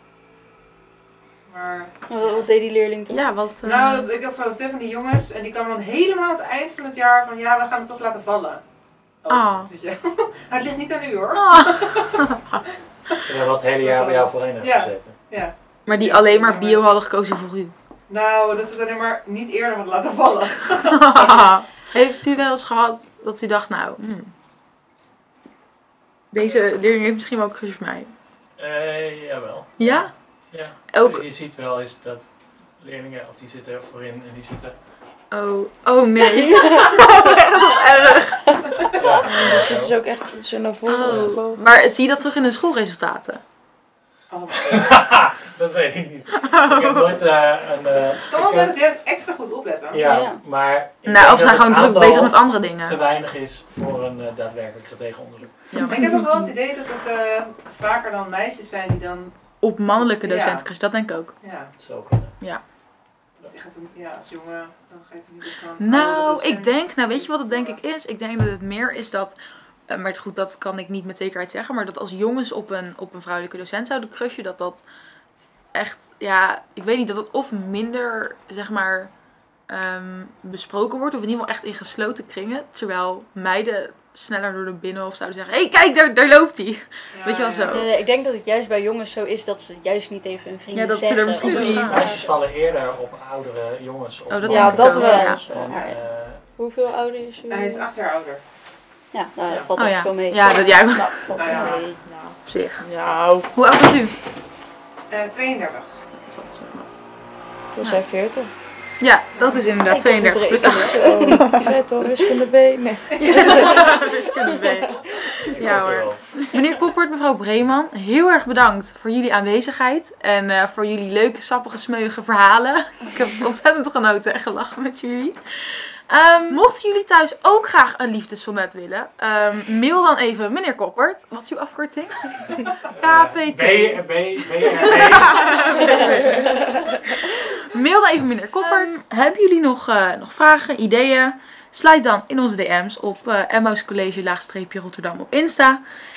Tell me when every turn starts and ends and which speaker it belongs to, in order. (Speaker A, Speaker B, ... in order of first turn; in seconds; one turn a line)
Speaker A: 1.5-2.5
Speaker B: 2.1-3.2
Speaker C: 3.1-4.1
Speaker A: 3.6-8.6
Speaker A: 9.2-12.3
Speaker C: 9.3-9.7
Speaker C: 11.3-12.6
Speaker A: 13.1-16.9
Speaker D: 13.2-15.1
Speaker C: 15.8-17.7
Speaker A: 18.1-21.5
Speaker C: 20.9-24.3
Speaker C: 26.3-28.1
Speaker D: 28.6-32.2
Speaker C: 29.8-30.1
Speaker C: 30.9-31.2
Speaker D: 32.8-34.7
Speaker C: 35.3-38.9
Speaker D: 38.8-40.0
Speaker E: 39.2-41.6
Speaker C: 40.9-43.4
Speaker D: 41.1-41.4
Speaker A: 44.3-45.1
Speaker D: 44.5-48.7
Speaker C: 46.4-47.1
Speaker A: 48.3-50.0
Speaker D: 49.9-55.6
Speaker B: 50.0-50.4
Speaker C: 51.0-53.0
Speaker C: 55.7-56.2
Speaker A: 55.8-59.3
Speaker C: 59.6-61.3
Speaker A: 60.0-60.6
Speaker A: 61.4-61.7
Speaker D: 61.8-62.3
Speaker A: 63.4-67.8
Speaker C: 65.8-69.3
Speaker C: 69.9-74.8
Speaker C: 75.7-79.1
Speaker C: 79.7-87.9
Speaker A: 87.1-87.8
Speaker B: 87.7-92.3
Speaker C: 90.7-92.1
Speaker E: 91.5-92.1
Speaker D: 91.5-96.4
Speaker C: 94.3-95.5
Speaker E: 94.5-95.5
Speaker B: 94.7-96.0
Speaker E: 96.6-97.8
Speaker B: 96.8-97.5
Speaker A: 97.5-98.4
Speaker B: 99.1-102.0
Speaker A: 99.5-99.7
Speaker C: 99.8-101.3
Speaker E: 101.1-103.5
Speaker A: 101.3-101.8
Speaker C: 102.5-102.8
Speaker C: 103.5-104.1
Speaker A: 105.1-105.9
Speaker C: 106.2-106.9
Speaker E: 107.7-108.5
Speaker C: 109.0-111.7
Speaker B: 109.4-111.8
Speaker E: 110.7-114.9
Speaker C: 113.2-145.8
Speaker D: 115.4-116.5
Speaker D: 132.9-136.2
Speaker E: 136.3-136.9